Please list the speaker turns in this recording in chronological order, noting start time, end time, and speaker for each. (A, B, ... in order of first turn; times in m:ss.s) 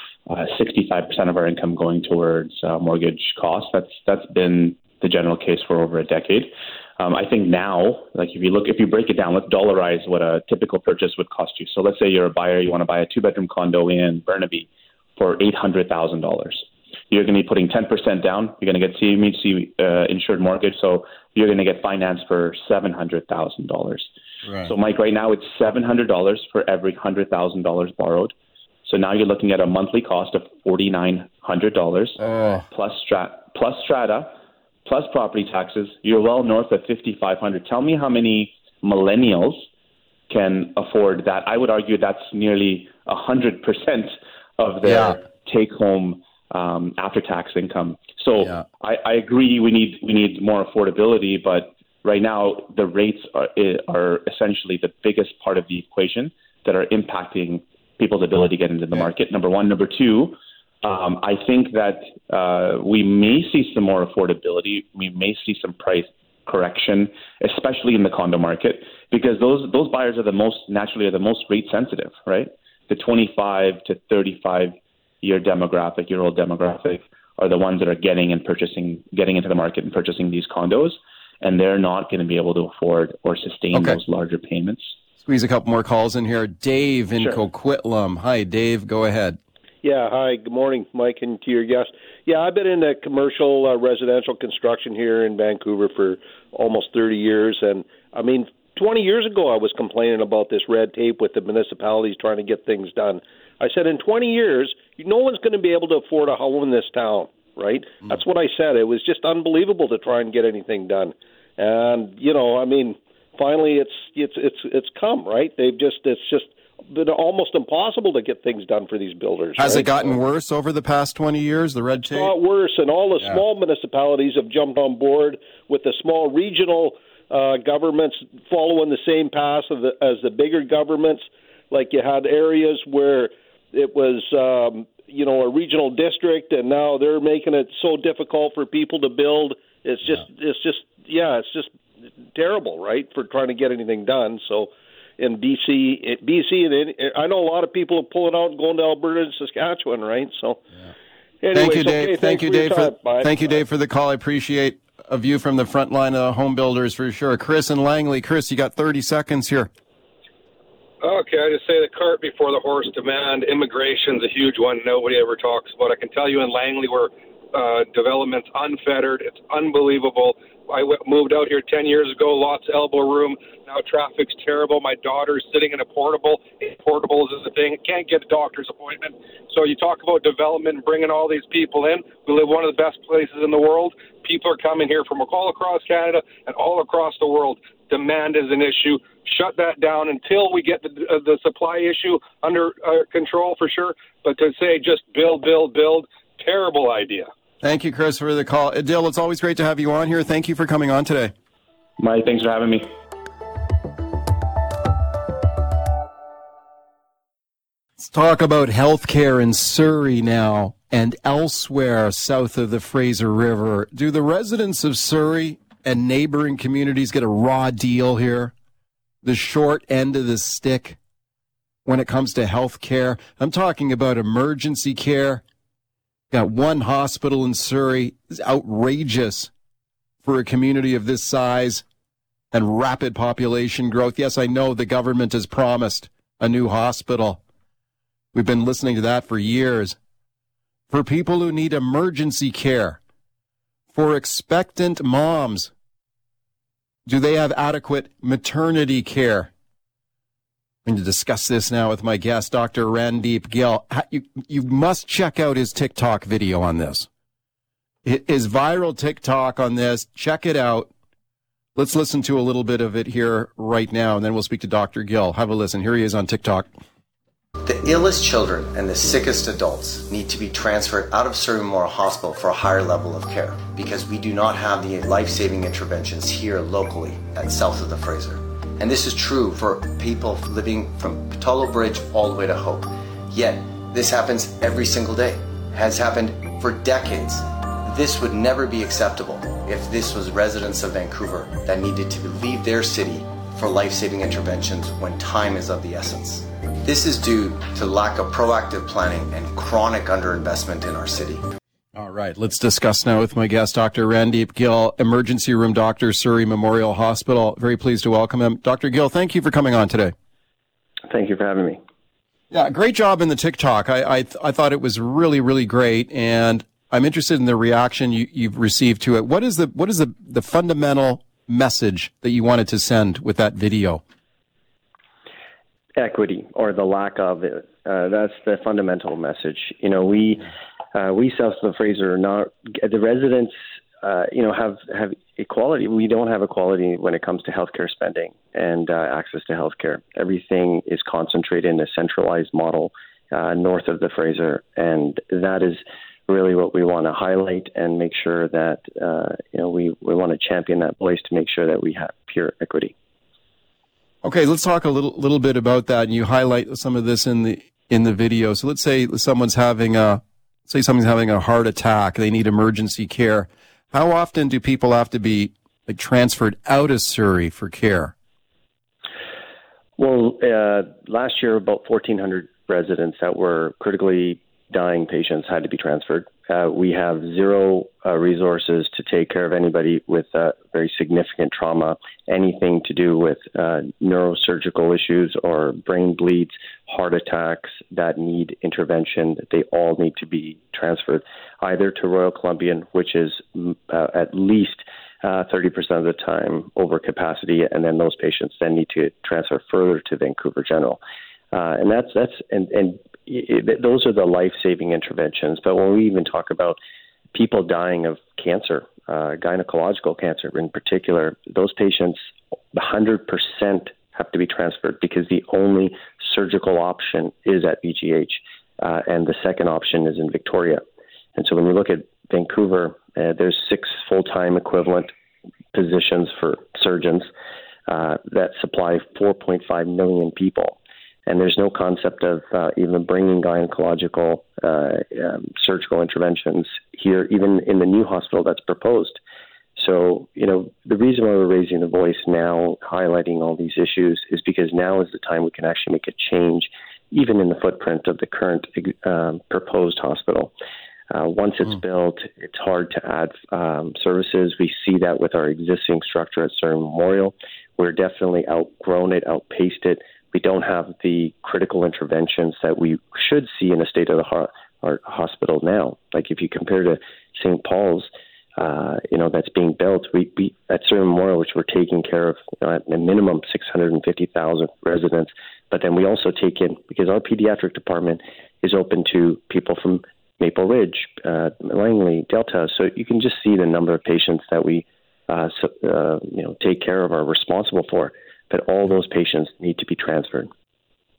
0:00.3-0:24.1 A
0:24.4-0:24.7 B
0:24.6-0:28.3 A
0:28.8-0:32.2 A
0:32.2-0:32.6 B
0:32.7-0:39.7 A
0:40.3-1:25.0 A
0:44.8-0:45.2 B
0:48.4-0:48.6 B
1:23.7-1:24.0 B
1:25.2-1:29.4 B
1:29.8-2:00.2 C
1:59.6-2:02.3 B
2:02.0-2:21.7 C
2:22.3-2:30.6 C
2:31.4-2:33.6 C
2:31.5-2:39.7 B
2:41.0-3:17.3 D
3:17.6-3:21.3 B
3:22.0-3:22.9 A
3:28.0-3:38.5 B
3:39.2-3:41.0 B
3:41.8-3:45.4 B
3:46.3-3:49.5 B
3:50.2-3:51.8 B
3:52.5-3:57.4 B
3:58.3-4:00.0 B
4:00.9-4:03.0 B
4:03.9-4:05.7 B
4:07.0-4:09.5 B
4:10.8-4:17.1 B
4:18.0-4:20.9 B
4:21.8-4:26.7 B
4:27.6-5:01.4 E
5:01.9-5:10.1 B
5:11.1-5:11.8 F
5:12.5-5:24.0 B
5:26.0-5:52.9 F
5:54.2-6:08.1 B
6:10.0-6:41.0 F
6:41.5-6:46.8 F
6:47.3-7:00.8 F
7:01.4-7:05.1 F
7:05.7-7:07.3 F
7:07.9-7:19.2 F
7:19.8-7:30.5 F
7:31.1-8:10.5 F